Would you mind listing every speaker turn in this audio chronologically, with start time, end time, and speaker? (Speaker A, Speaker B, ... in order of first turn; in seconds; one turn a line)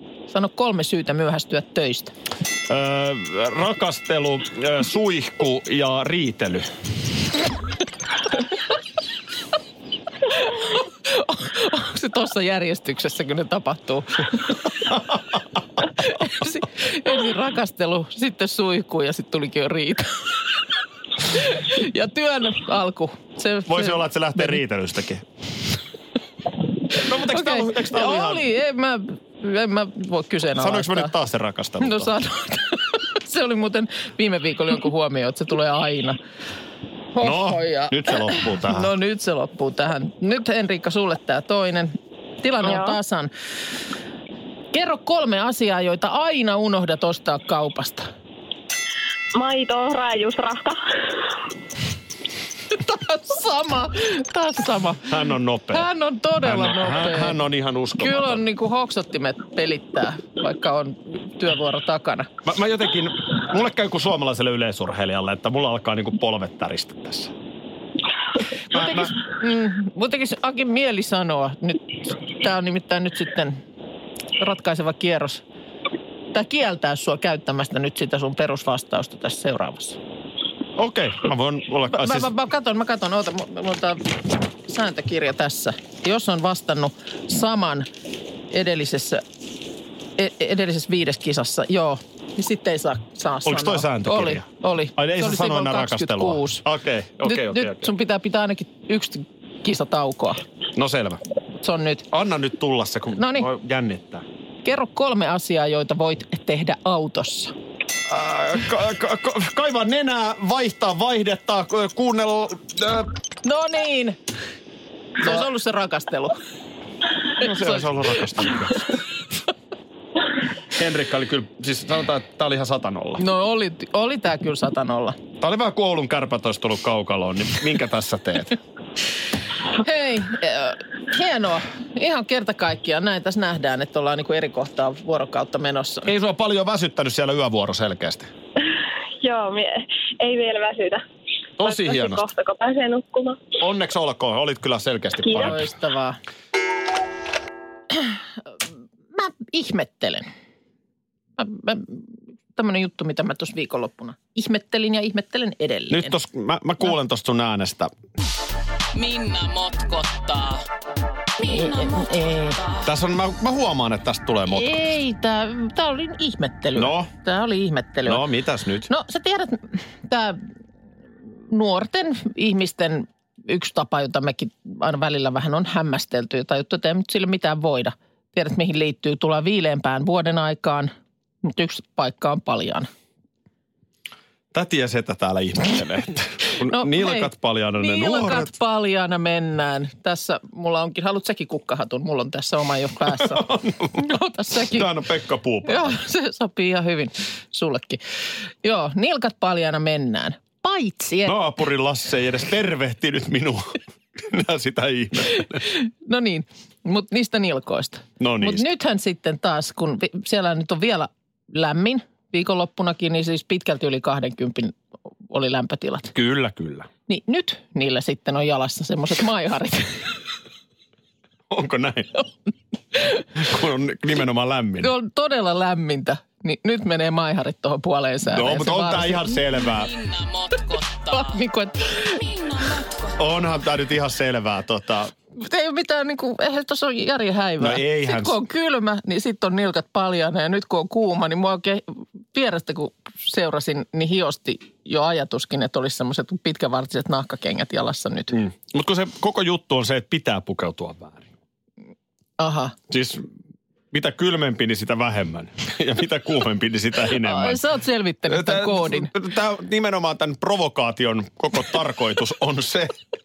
Speaker A: 0.3-2.1
Speaker B: 2.7-6.7
Speaker A: 10.3-14.7
Speaker A: 15.9-20.4
Speaker A: 21.2-24.6
Speaker B: 23.7-25.2
Speaker A: 26.9-31.1
Speaker B: 26.9-28.4
Speaker B: 30.6-32.1
Speaker A: 31.8-36.2
Speaker A: 37.1-43.3
Speaker B: 37.2-38.9
Speaker C: 42.6-43.0
Speaker A: 44.7-48.1
Speaker C: 49.4-50.8
Speaker A: 52.7-55.1
Speaker B: 55.0-55.9
Speaker A: 55.7-57.4
Speaker B: 56.4-58.4
Speaker A: 58.0-62.3
Speaker B: 62.4-67.3
Speaker B: 68.7-69.1
Speaker A: 68.7-73.6
Speaker A: 74.4-75.4
Speaker A: 76.3-80.0
Speaker B: 80.8-82.3
Speaker A: 81.9-87.9
Speaker A: 88.5-89.2
Speaker A: 90.2-96.6
Speaker B: 93.4-97.9
Speaker A: 97.2-100.4
Speaker B: 100.7-101.2
Speaker A: 101.6-102.0
Speaker B: 102.1-104.2
Speaker A: 103.2-103.5
Speaker A: 104.6-107.5
Speaker B: 108.1-113.1
Speaker A: 113.4-114.2
Speaker A: 115.2-116.4
Speaker B: 117.4-118.9
Speaker A: 117.4-118.5
Speaker B: 120.7-123.2
Speaker A: 123.2-125.2
Speaker B: 125.4-128.6
Speaker A: 129.8-136.1
Speaker B: 136.1-138.3
Speaker C: 138.8-141.0
Speaker B: 141.6-142.2
Speaker C: 141.6-143.6
Speaker B: 143.6-145.6
Speaker C: 145.2-145.5
Speaker A: 145.3-146.2
Speaker A: 147.9-148.2
Speaker A: 149.1-150.3
Speaker A: 151.4-156.1
Speaker B: 155.9-157.9
Speaker D: 158.9-160.6
Speaker D: 161.4-162.8
Speaker A: 161.4-162.6
Speaker B: 162.8-164.8
Speaker A: 164.5-168.2
Speaker B: 166.7-167.1
Speaker B: 168.1-168.9
Speaker A: 168.9-170.4
Speaker A: 171.5-180.9
Speaker A: 181.4-182.9
Speaker B: 184.5-188.5
Speaker A: 186.6-194.9
Speaker B: 193.0-196.0
Speaker A: 195.7-198.0
Speaker A: 198.6-201.3
Speaker B: 201.2-205.7
Speaker A: 205.6-214.8
Speaker B: 208.2-208.7
Speaker A: 215.3-216.1
Speaker B: 216.1-216.9
Speaker A: 217.1-220.0
Speaker B: 221.5-222.2
Speaker B: 223.3-224.9
Speaker A: 224.8-229.4
Speaker B: 228.3-229.9
Speaker D: 229.7-231.4
Speaker A: 231.1-232.2
Speaker D: 232.1-233.1
Speaker B: 233.2-235.1
Speaker A: 235.3-241.8
Speaker B: 237.6-238.4
Speaker A: 242.3-248.4
Speaker B: 248.3-251.3
Speaker A: 252.4-252.8
Speaker B: 252.9-253.3
Speaker B: 253.9-257.6
Speaker A: 257.2-259.1
Speaker B: 258.3-262.9